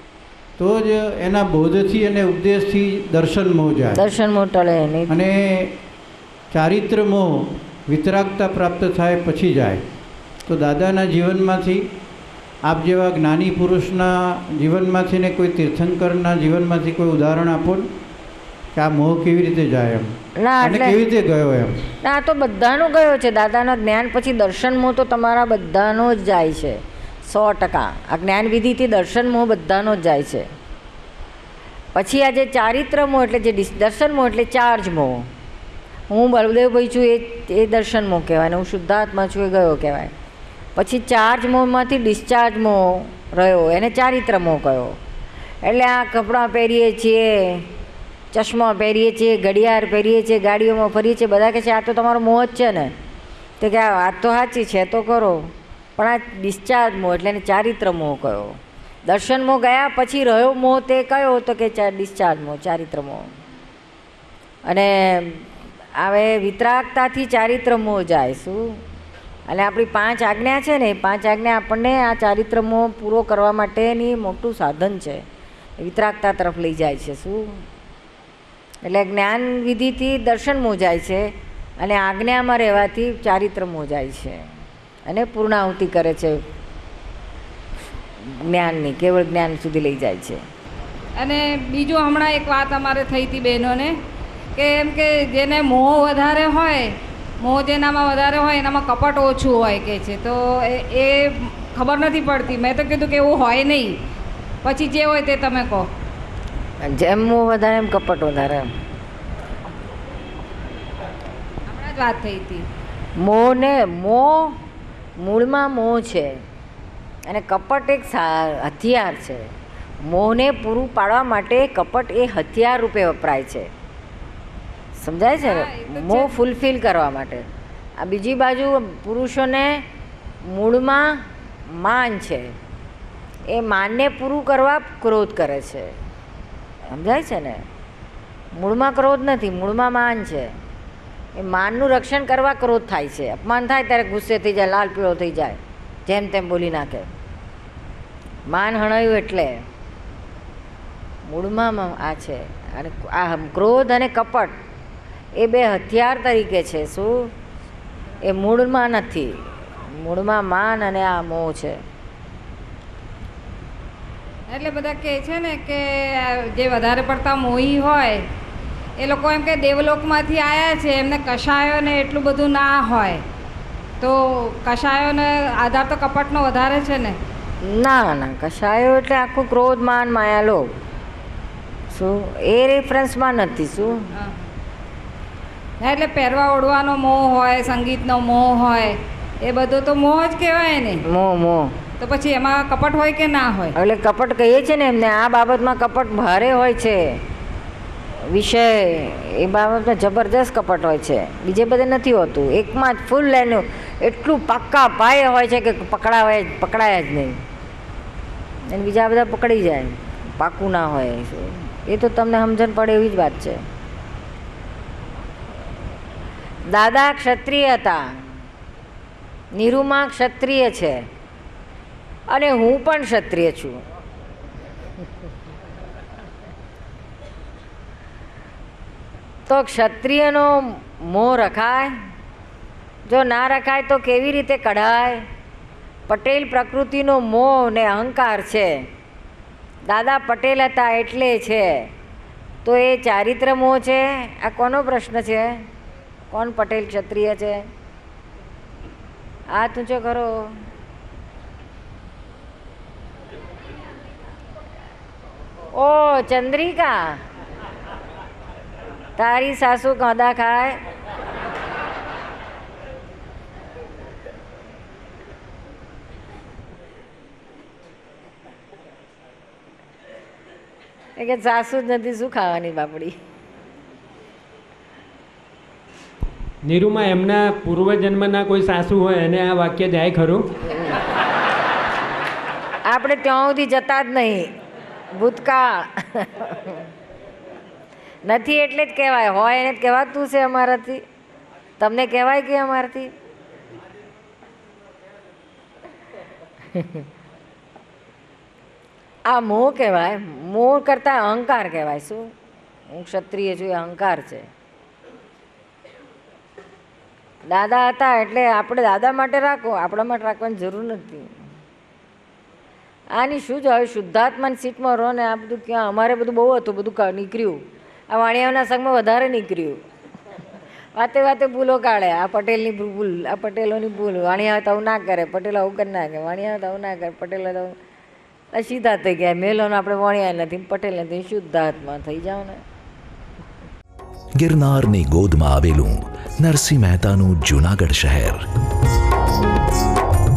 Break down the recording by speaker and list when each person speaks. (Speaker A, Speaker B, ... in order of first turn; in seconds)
Speaker A: 0.6-4.0, 5.1-5.8, 6.5-9.8, 10.5-11.9, 12.6-17.9, 18.7-21.8
Speaker B: 3.9-5.1, 20.4-21.0, 22.0-30.5, 31.9-35.2, 36.1-40.1, 40.8-45.0, 45.6-47.7, 48.3-52.9, 53.6-63.3, 64.7-68.8, 69.5-75.2, 75.8-77.6, 78.8-81.3, 81.8-84.4, 85.1-86.4, 88.2-90.4, 106.8-108.7, 113.2-114.5, 115.2-116.3, 117.3-119.5, 120.0-123.7, 125.0-127.4, 128.0-129.8, 130.4-132.5, 133.5-135.9, 136.9-137.6, 138.5-140.5, 141.3-147.1, 148.5-149.6, 151.2-154.5, 155.4-157.3, 158.2-161.8, 177.6-180.7, 181.9-184.1, 191.1-191.7, 193.7-197.1, 198.3-207.4, 208.7-213.6, 216.7-218.0, 219.6-221.1, 222.3-223.8, 229.4-231.9, 233.1-235.2, 236.1-238.8, 239.9-241.9, 242.6-245.5, 246.3-247.6, 249.5-250.6, 255.7-257.2, 259.2-260.8, 271.2-273.1, 282.9-284.5, 285.1-286.8, 288.2-291.0, 291.8-293.1, 299.3-302.2, 302.9-304.5, 307.4-311.3, 313.1-319.8, 320.9-327.7, 328.5-332.6
Speaker C: 91.2-93.9, 94.5-96.9, 97.4-103.9, 104.6-105.8, 111.7-112.6, 125.4-126.3, 164.5-168.2, 169.0-173.2, 174.0-177.2, 184.2-184.5, 185.8-191.0, 192.0-193.7
Speaker D: 276.6-280.4
Speaker E: 334.4-338.4